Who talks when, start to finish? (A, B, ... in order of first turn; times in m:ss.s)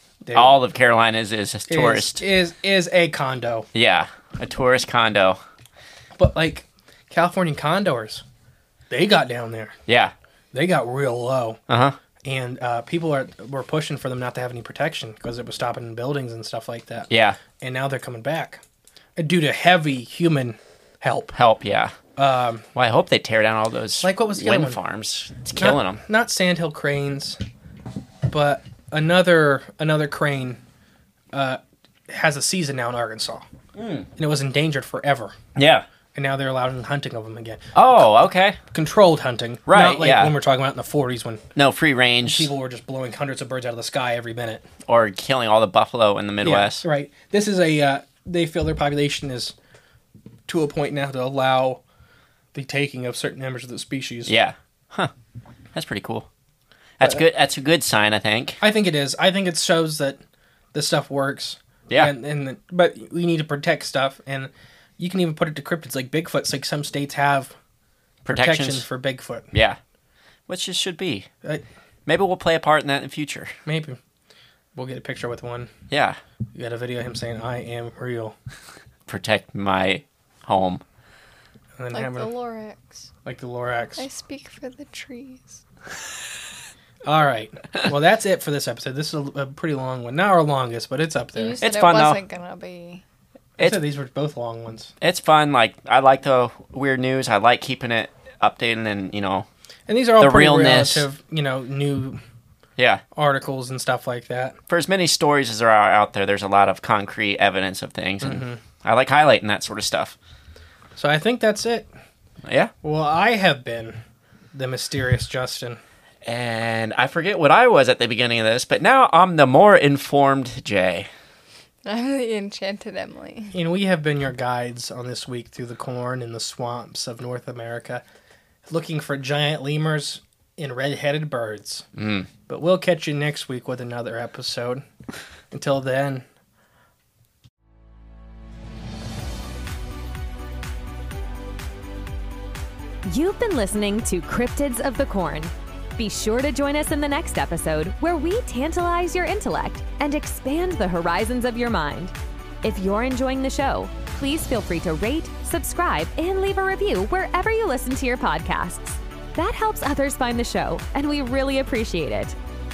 0:00.2-0:00.5 A
0:00.3-0:02.2 B
0:01.7-0:03.7 A
0:03.8-0:05.4 B
0:06.2-0:08.2 A
0:08.9-0:09.8 A
0:09.9-0:10.1 B
0:10.5-0:11.6 A
0:11.7-0:12.0 B
0:12.2-0:18.6 A
0:17.1-0:17.4 B
0:19.2-0:21.3 A
0:21.3-0:21.9 B
0:22.2-0:22.6 A
0:22.8-0:26.0 B
0:24.0-0:24.8 A
0:25.6-0:27.4 A
0:28.3-0:30.6 A
0:31.3-0:33.4 A
0:33.8-0:34.1 B
0:34.2-0:35.4 A
0:35.6-0:35.8 B
0:36.1-0:38.0 A
0:37.8-0:38.6 B
0:38.7-0:41.4 A
0:39.7-0:40.4 B
0:41.6-0:42.5 B
0:42.3-0:44.7 A
0:44.9-0:46.8 B
0:46.4-0:49.5 A
0:50.5-0:51.8 A
0:52.5-0:54.3 A
0:54.3-0:55.1 B
0:55.8-0:56.3 B
0:57.0-0:58.6 B
0:58.6-1:00.2 A
1:00.7-1:07.5 A
1:08.2-1:08.8 B
1:08.3-1:09.5 A
1:09.5-1:09.8 B
1:10.5-1:11.3 B
1:12.1-1:13.5 B
1:13.7-1:14.0 A
1:14.8-1:15.7 A
1:15.9-1:16.2 B
1:16.6-1:18.4 A
1:19.1-1:20.8 B
1:21.8-1:22.3 A
1:21.9-1:23.1 C
1:23.2-1:24.0 A
1:24.0-1:25.6 C
1:27.0-1:31.6 A
1:31.4-1:33.0 C
1:31.6-1:32.2 B
1:33.6-1:34.9 A
1:35.0-1:39.5 B
1:39.9-1:42.2 A
1:40.2-1:41.1 B
1:42.8-1:43.0 B
1:43.2-1:44.6 A
1:44.7-1:50.2 B
1:48.2-1:48.6 A
1:51.0-1:51.9 A
1:52.5-1:52.7 B
1:52.8-1:54.0 A
1:54.5-1:55.8 A
1:56.2-2:01.1 B
2:01.8-2:03.6 C
2:03.5-2:08.0 A
2:08.7-2:11.8 A
2:12.0-2:12.3 B
2:12.5-2:14.9 A
2:15.5-2:16.3 A
2:23.1-2:32.1 D
2:32.6-2:42.4 D